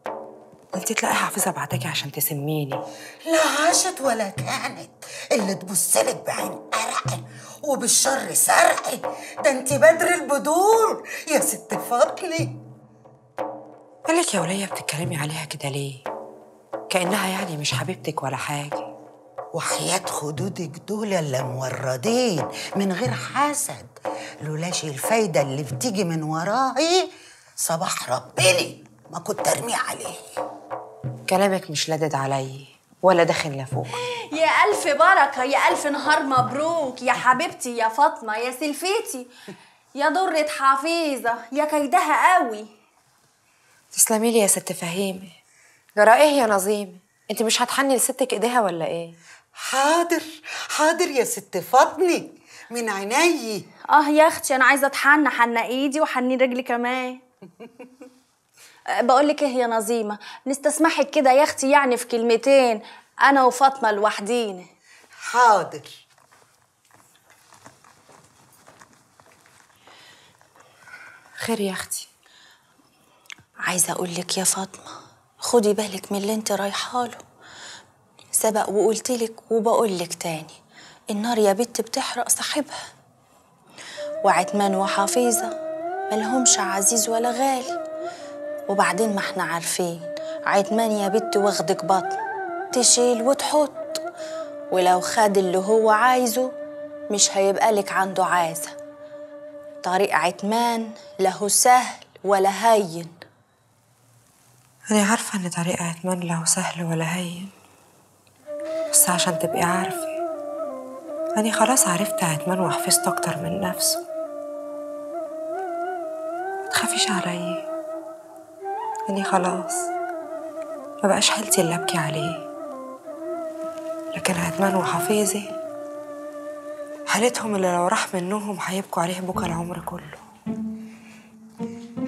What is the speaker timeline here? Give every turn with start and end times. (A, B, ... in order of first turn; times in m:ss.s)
0:00.7-0:02.8 A
0:03.3-0:12.6 B
0:14.1-0:16.0 A
0:16.9-0:18.9 A
0:19.5-0:23.9 B
0:24.4-0:27.1 B
0:27.6-0:30.2 B
0:31.3-0:33.9 A
0:34.2-0:39.3 C
0:39.9-0:42.7 C
0:43.9-0:45.4 A
0:46.0-0:49.2 A
0:49.6-0:53.6 B
0:53.9-0:57.2 C
0:59.0-1:04.7 C
1:05.3-1:05.9 B
1:11.4-1:12.1 A
1:13.7-1:17.2 C
1:18.3-1:20.6 C
1:21.1-1:22.8 C
1:24.2-1:25.5 C
1:26.1-1:27.8 C
1:28.7-1:32.2 C
1:32.7-1:34.0 C
1:34.7-1:36.5 C
1:37.1-1:38.8 C
1:39.8-1:43.1 C
1:44.9-1:47.5 A
1:48.9-1:50.2 A
1:51.4-1:54.0 A
1:56.7-1:57.6 A
1:59.1-1:59.9 A
2:01.0-2:02.4 A
2:04.1-2:05.5 A
2:07.1-2:10.2 A